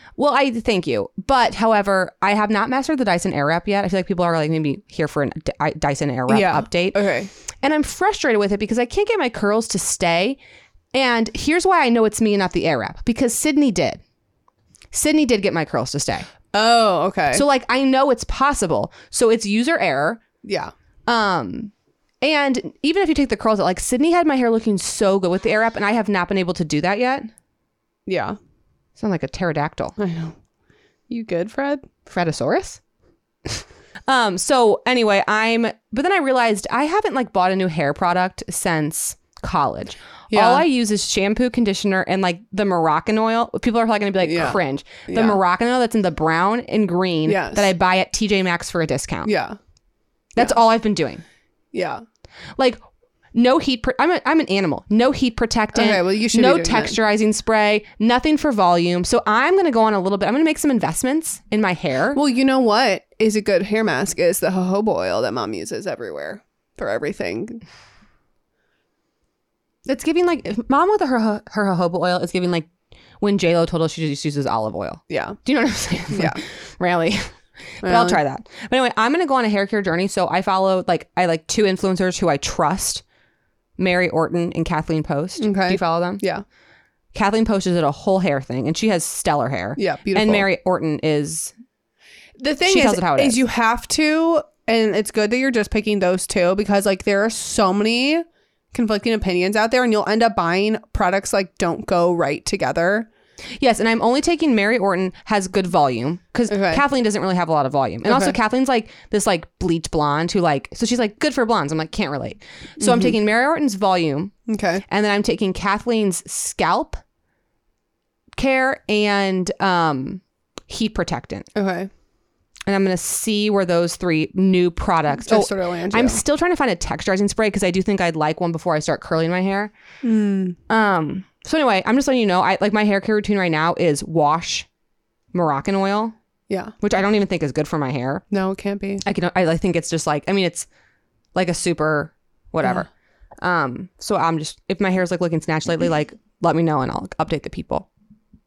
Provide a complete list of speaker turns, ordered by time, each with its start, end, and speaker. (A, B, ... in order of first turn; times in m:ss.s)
0:00.2-0:07.0 A
0:06.3-0:07.3 B
0:07.6-0:10.4 A
0:10.9-0:14.0 A
0:14.9-0:16.3 A
0:16.5-0:17.4 B
0:17.3-0:20.2 A
0:20.4-0:20.7 B
0:21.1-0:27.3 A
0:28.1-0:28.4 B
0:29.0-0:30.0 A
0:30.0-0:30.4 B
0:31.1-0:31.9 B
0:32.1-0:32.8 A
0:33.5-0:49.3 A
0:40.3-0:40.7 B
0:44.2-0:45.4 B
0:47.3-0:47.7 B
0:49.2-0:49.6 B
0:50.4-0:51.2 A
0:51.7-0:52.0 B
0:52.6-0:52.8 A
0:53.3-1:02.2 A
0:55.7-0:57.0 B
1:02.1-1:07.6 B
1:09.9-1:12.7 A
1:13.2-1:17.3 A
1:15.1-1:15.4 B
1:16.1-1:16.4 B
1:17.8-1:23.0 A
1:17.8-1:18.2 B
1:23.8-1:26.2 A
1:25.4-1:26.4 B
1:27.1-1:31.5 A
1:29.8-1:30.5 B
1:32.4-1:43.1 B
1:32.7-1:33.4 A
1:43.6-1:54.3 A
1:46.5-1:46.8 B
1:48.1-1:48.4 B
1:52.8-1:53.2 B
1:54.5-1:54.8 B
1:54.9-1:57.0 A
1:58.4-2:01.5 A
2:01.6-2:01.9 B
2:02.7-2:09.7 A
2:05.2-2:06.2 B
2:10.0-2:10.6 B
2:10.7-2:14.7 A
2:15.3-2:16.2 A
2:16.5-2:16.7 B
2:16.8-2:18.2 A
2:18.3-2:19.0 B
2:19.0-2:20.7 A
2:21.4-2:22.9 A
2:23.4-2:27.9 A